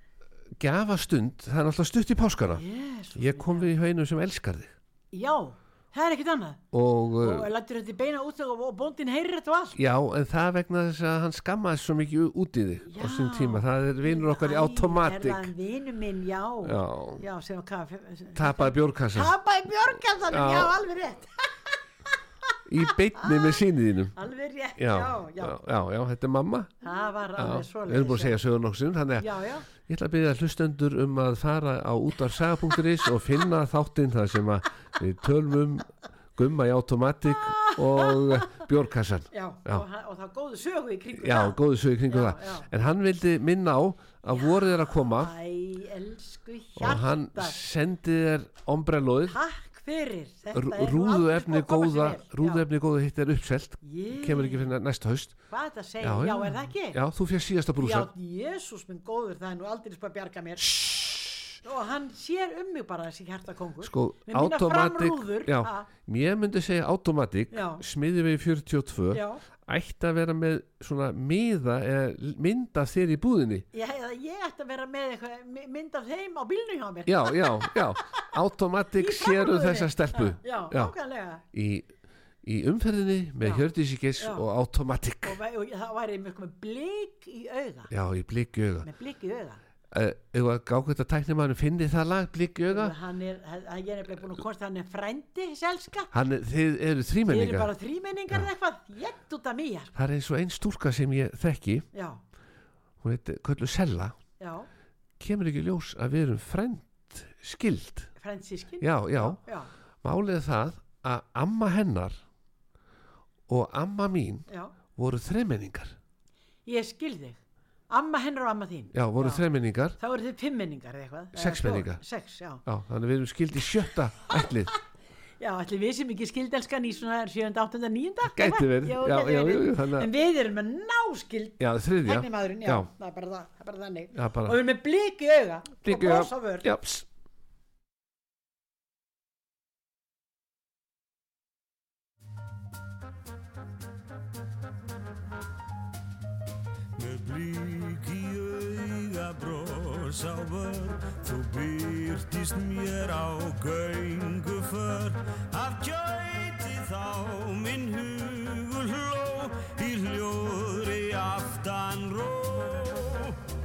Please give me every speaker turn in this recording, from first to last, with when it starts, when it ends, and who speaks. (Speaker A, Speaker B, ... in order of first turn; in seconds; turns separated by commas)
Speaker A: 0.6-2.6, Speaker B: 2.5-3.7, Speaker A: 3.1-4.7, Speaker B: 5.1-6.6, Speaker A: 6.7-7.5, Speaker B: 7.2-9.8, Speaker A: 9.8-15.5, Speaker B: 12.8-21.8, Speaker A: 16.6-17.2, Speaker A: 18.3-19.3, Speaker A: 20.3-20.8, Speaker A: 22.7-24.2, Speaker B: 23.1-23.6, Speaker B: 24.1-25.6, Speaker A: 24.8-26.8, Speaker B: 26.8-28.4, Speaker A: 27.4-39.8, Speaker B: 29.2-29.6, Speaker B: 37.3-38.6, Speaker B: 39.3-42.7, Speaker A: 41.2-45.3, Speaker B: 44.3-47.6, Speaker A: 46.8-49.4, Speaker B: 49.3-52.6, Speaker A: 50.5-55.4, Speaker B: 53.8-54.7, Speaker B: 55.5-57.0, Speaker A: 56.0-58.1, Speaker B: 57.8-60.8, Speaker A: 60.6-61.5, Speaker B: 61.6-65.9, Speaker A: 63.8-73.7, Speaker B: 67.5-67.8, Speaker B: 69.1-69.4, Speaker B: 73.7-78.2, Speaker A: 77.0-80.9, Speaker B: 79.0-81.4, Speaker A: 81.5-81.9, Speaker A: 82.4-85.4, Speaker B: 83.4-84.5, Speaker B: 85.2-87.9, Speaker A: 87.9-88.9, Speaker B: 88.8-89.6, Speaker A: 89.9-93.0, Speaker B: 92.7-96.1, Speaker A: 96.1-97.7, Speaker B: 97.3-99.9, Speaker A: 99.9-101.8, Speaker B: 101.9-102.2, Speaker A: 103.0-104.2, Speaker B: 104.4-104.7, Speaker A: 105.2-108.1, Speaker B: 108.2-109.7, Speaker A: 108.8-109.4, Speaker A: 110.0-112.2, Speaker A: 113.5-116.0, Speaker B: 114.5-114.7, Speaker B: 116.7-119.4, Speaker A: 118.9-120.0, Speaker B: 120.0-122.6, Speaker A: 121.3-122.0, Speaker A: 122.6-124.7, Speaker B: 125.4-136.7, Speaker A: 128.2-130.1, Speaker A: 131.6-132.9, Speaker A: 134.1-134.6, Speaker A: 135.8-137.1, Speaker C: 146.9-163.4